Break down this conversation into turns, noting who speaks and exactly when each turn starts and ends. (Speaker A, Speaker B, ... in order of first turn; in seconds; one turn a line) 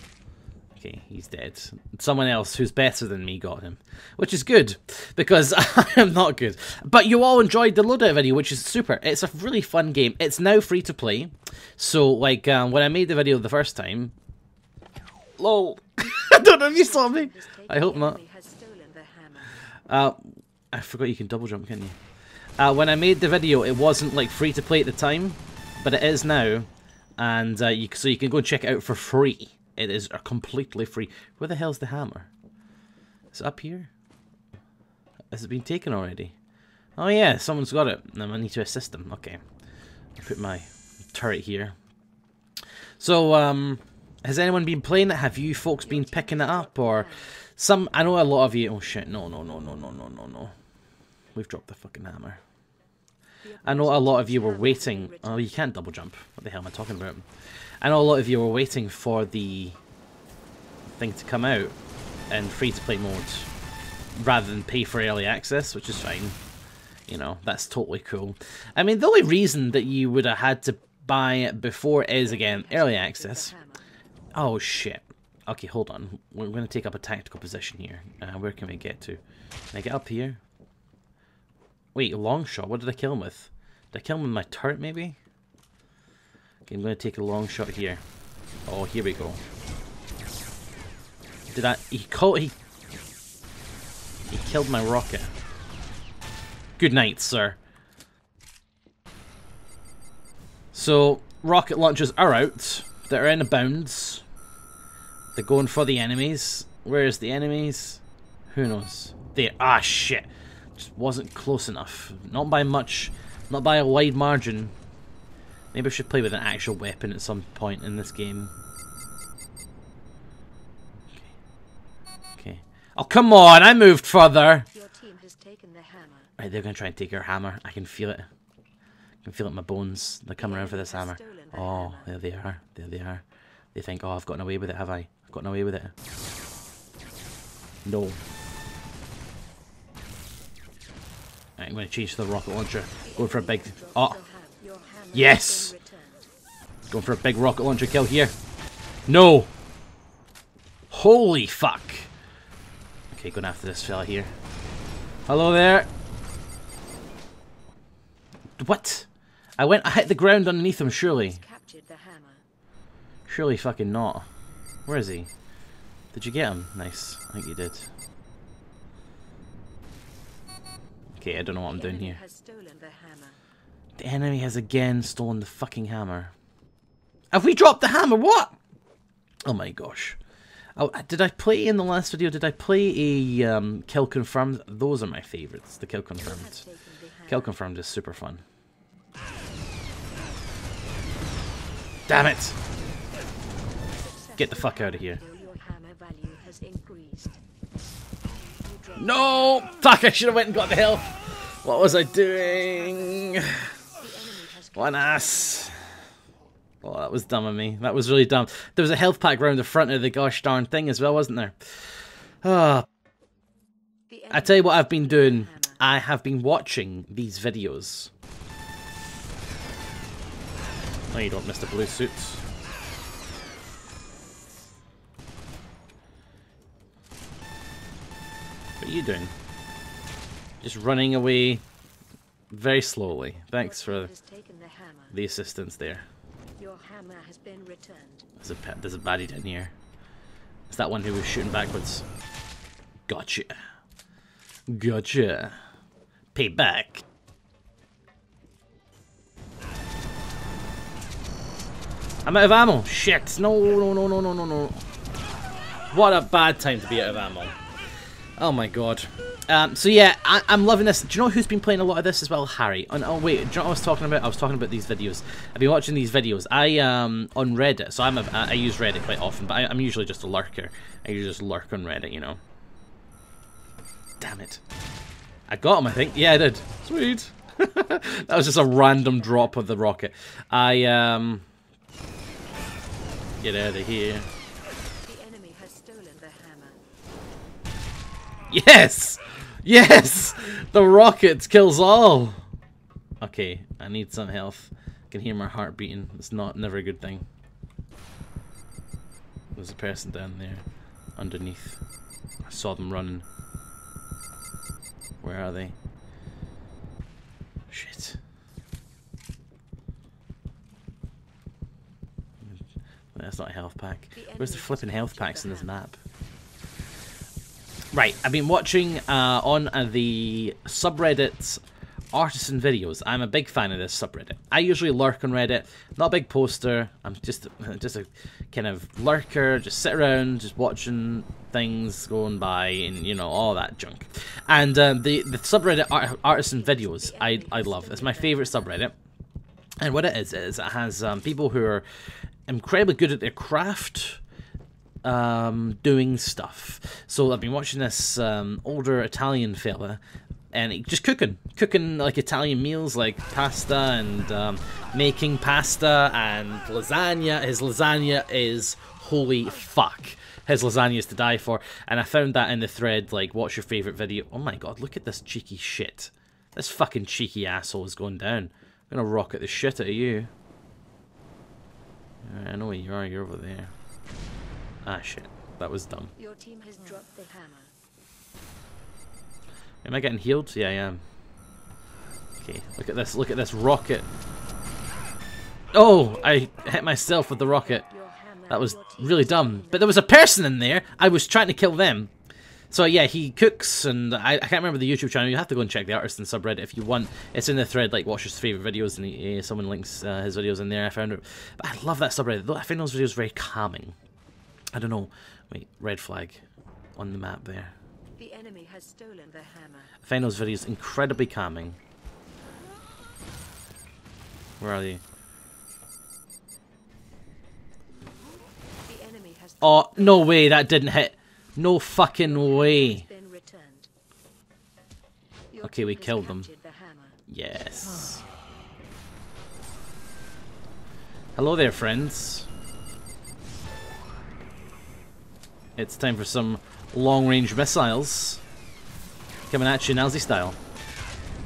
Speaker A: 0.8-14.1
Speaker A: 15.4-18.2
Speaker B: 16.6-19.5
Speaker A: 19.9-22.0
Speaker A: 22.6-32.3
Speaker A: 33.3-33.9
Speaker A: 35.3-36.3
Speaker A: 37.0-39.4
Speaker A: 40.2-41.8
Speaker A: 43.0-50.5
Speaker B: 45.8-47.3
Speaker A: 51.3-52.4
Speaker B: 53.4-55.6
Speaker A: 53.6-57.2
Speaker A: 57.8-59.8
Speaker A: 60.9-61.8
Speaker A: 62.3-63.5
Speaker A: 64.1-66.4
Speaker A: 67.1-73.5
Speaker B: 72.2-73.8
Speaker A: 74.3-79.2
Speaker A: 79.7-80.4
Speaker A: 81.9-85.2
Speaker A: 86.6-88.0
Speaker A: 88.7-89.4
Speaker A: 91.5-92.5
Speaker A: 94.3-95.3
Speaker A: 96.8-97.6
Speaker A: 100.7-104.2
Speaker A: 105.4-114.7
Speaker A: 115.7-118.5
Speaker A: 122.4-124.7
Speaker B: 124.7-126.3
Speaker A: 126.4-128.3
Speaker A: 129.2-135.9
Speaker B: 130.4-132.1
Speaker A: 137.8-138.2
Speaker A: 141.6-144.2
Speaker B: 143.0-146.3
Speaker A: 145.1-145.7
Speaker A: 146.9-148.3
Speaker A: 149.1-149.5
Speaker A: 150.9-152.1
Speaker A: 153.1-154.3
Speaker A: 155.3-155.9
Speaker A: 158.6-161.4
Speaker B: 160.9-162.4
Speaker A: 163.3-164.3
Speaker A: 164.9-165.3
Speaker A: 166.1-167.9
Speaker A: 171.2-172.2
Speaker B: 171.6-173.4
Speaker A: 174.0-176.3
Speaker A: 177.3-178.6
Speaker A: 179.5-180.2
Speaker A: 180.8-186.7
Speaker B: 186.2-187.6
Speaker A: 187.3-188.4
Speaker A: 192.1-192.6
Speaker B: 193.9-197.4
Speaker A: 194.4-195.2
Speaker B: 198.4-199.7
Speaker A: 199.0-203.7
Speaker B: 201.8-205.7
Speaker A: 204.8-205.9
Speaker A: 206.8-211.9
Speaker A: 212.4-212.9
Speaker B: 214.1-215.8
Speaker A: 214.3-218.1
Speaker A: 221.1-222.4
Speaker A: 228.8-229.3
Speaker A: 230.6-231.6
Speaker A: 232.5-234.1
Speaker B: 233.6-235.2
Speaker A: 235.1-236.1
Speaker B: 236.6-238.3
Speaker A: 238.4-239.7
Speaker A: 240.7-242.1
Speaker A: 243.1-243.6
Speaker A: 244.7-245.6
Speaker A: 246.3-247.0
Speaker A: 252.2-254.8
Speaker A: 255.9-257.6
Speaker A: 258.4-272.4
Speaker A: 274.2-274.6
Speaker A: 275.5-281.4
Speaker B: 278.5-279.5
Speaker A: 283.4-284.3
Speaker B: 285.0-286.8
Speaker A: 288.5-292.4
Speaker A: 293.2-297.2
Speaker A: 299.6-300.6
Speaker A: 301.2-301.8
Speaker A: 302.4-303.2
Speaker A: 305.2-305.8
Speaker A: 307.7-308.2
Speaker A: 313.1-316.0
Speaker B: 314.1-315.8
Speaker A: 317.9-321.6
Speaker A: 322.1-338.9
Speaker B: 336.5-338.8
Speaker A: 339.8-341.9
Speaker A: 342.5-344.2
Speaker A: 345.0-350.0
Speaker A: 350.5-370.3
Speaker A: 372.2-373.7
Speaker A: 374.9-376.1
Speaker B: 376.1-377.7
Speaker A: 379.8-381.0
Speaker A: 382.4-384.1
Speaker A: 385.7-387.9
Speaker B: 387.6-390.2
Speaker A: 388.5-392.1
Speaker A: 392.7-404.0
Speaker A: 404.7-406.4
Speaker A: 407.0-407.7
Speaker B: 408.2-409.9
Speaker A: 410.0-411.8
Speaker A: 414.6-415.0
Speaker B: 418.9-420.7
Speaker A: 419.6-423.0
Speaker B: 422.2-423.9
Speaker B: 425.5-427.2
Speaker A: 425.6-426.5
Speaker A: 427.3-428.2
Speaker A: 431.4-432.5
Speaker A: 435.8-438.4
Speaker A: 439.5-440.6